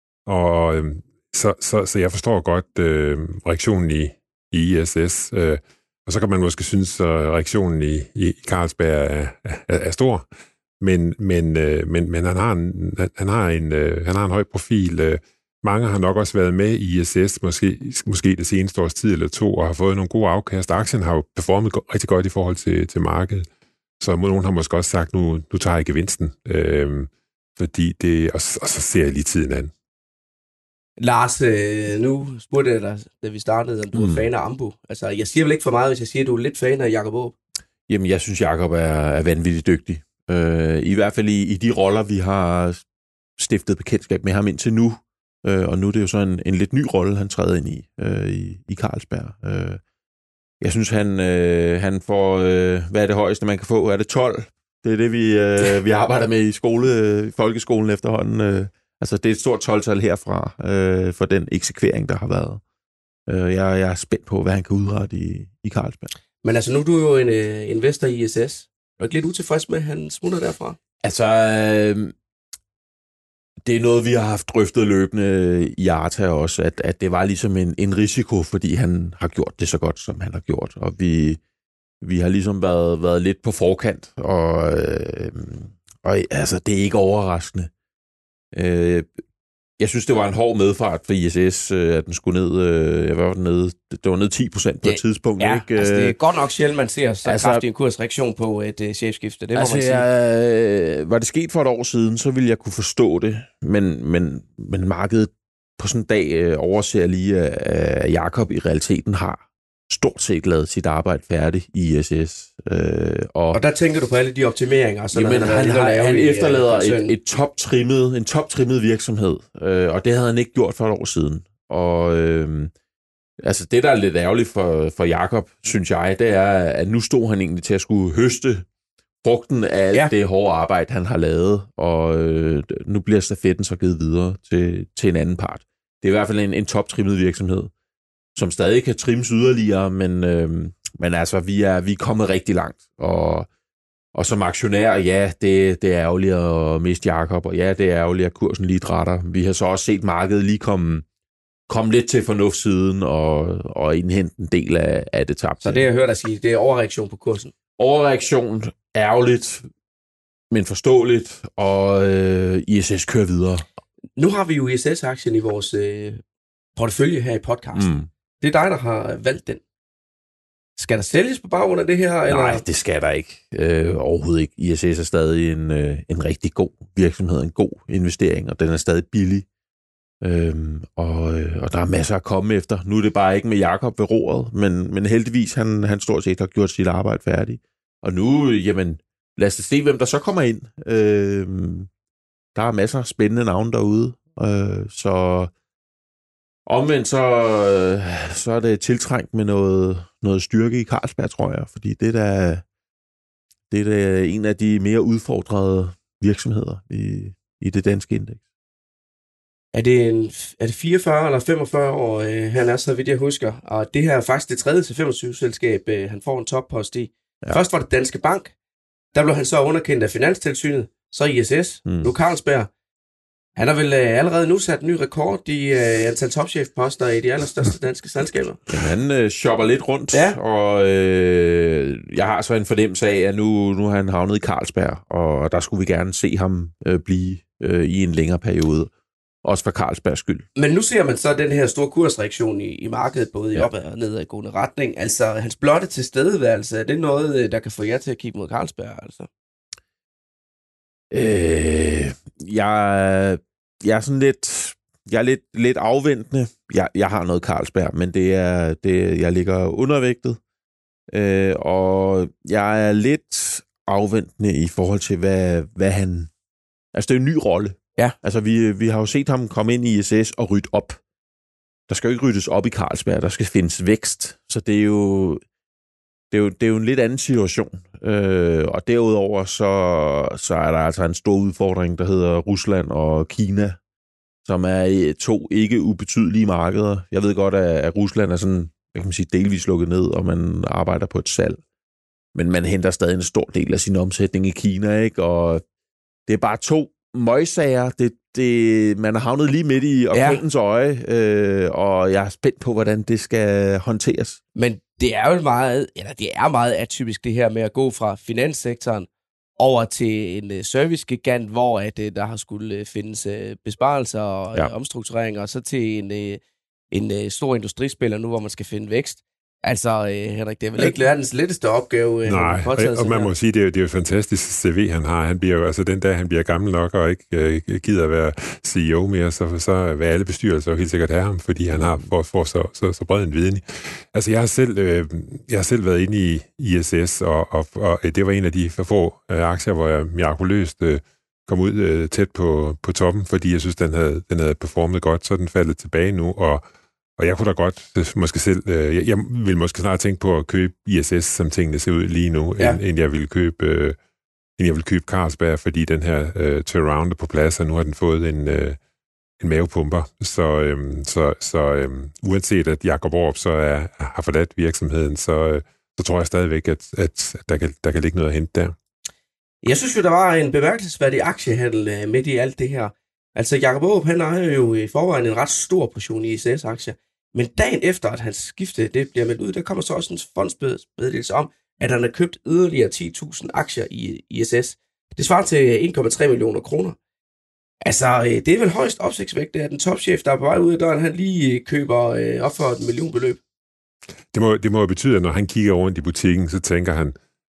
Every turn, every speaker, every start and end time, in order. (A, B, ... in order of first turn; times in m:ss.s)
0:00.2-0:10.2 A
0:10.8-0:23.5 A
0:24.0-0:29.7 A
0:31.0-0:37.4 B
0:33.9-0:34.2 C
0:37.9-0:42.8 C
0:43.4-0:49.8 C
0:50.6-1:02.6 C
1:03.3-1:06.1 C
1:06.4-1:10.8 B
1:11.0-1:12.1 C
1:13.6-1:21.4 C
1:22.0-1:27.7 C
1:28.5-1:29.1 C
1:29.8-1:36.2 C
1:34.8-1:40.0 B
1:37.2-1:37.6 C
1:39.5-1:53.6 C
1:53.5-1:57.1 B
1:55.1-2:02.7 C
2:03.4-2:08.6 C
2:09.2-2:17.7 C
2:18.3-2:23.5 C
2:24.1-2:31.0 C
2:31.7-2:35.9 C
2:35.6-2:37.5 B
2:37.8-2:39.7 C
2:40.5-2:43.6 C
2:44.2-2:46.2 B
2:46.8-2:47.9 B
2:47.7-2:48.1 C
2:48.4-2:49.6 B
2:50.8-2:52.6 B
2:52.3-2:59.4 C
3:00.2-3:11.9 C
3:12.5-3:15.5 C
3:16.6-3:22.6 C
3:23.7-3:28.4 C
3:29.7-3:38.5 B
3:39.1-3:42.7 B
3:41.8-3:42.1 C
3:43.6-3:48.6 B
3:48.7-3:58.9 C
3:50.1-3:50.4 B
3:59.4-4:00.4 C
4:00.5-4:09.3 B
4:11.1-4:20.4 C
4:21.1-4:26.3 C
4:26.9-4:31.0 C
4:31.9-4:35.4 C
4:36.3-4:43.8 C
4:44.4-4:51.6 C
4:52.3-4:55.6 C
4:56.3-5:04.4 C
5:00.1-5:00.4 B
5:04.5-5:23.3 B
5:22.2-5:46.6 A
5:47.2-5:54.0 A
5:54.6-5:58.8 A
5:59.4-6:08.7 A
6:09.6-6:27.0 B
6:27.8-6:33.4 B
6:34.3-6:37.2 A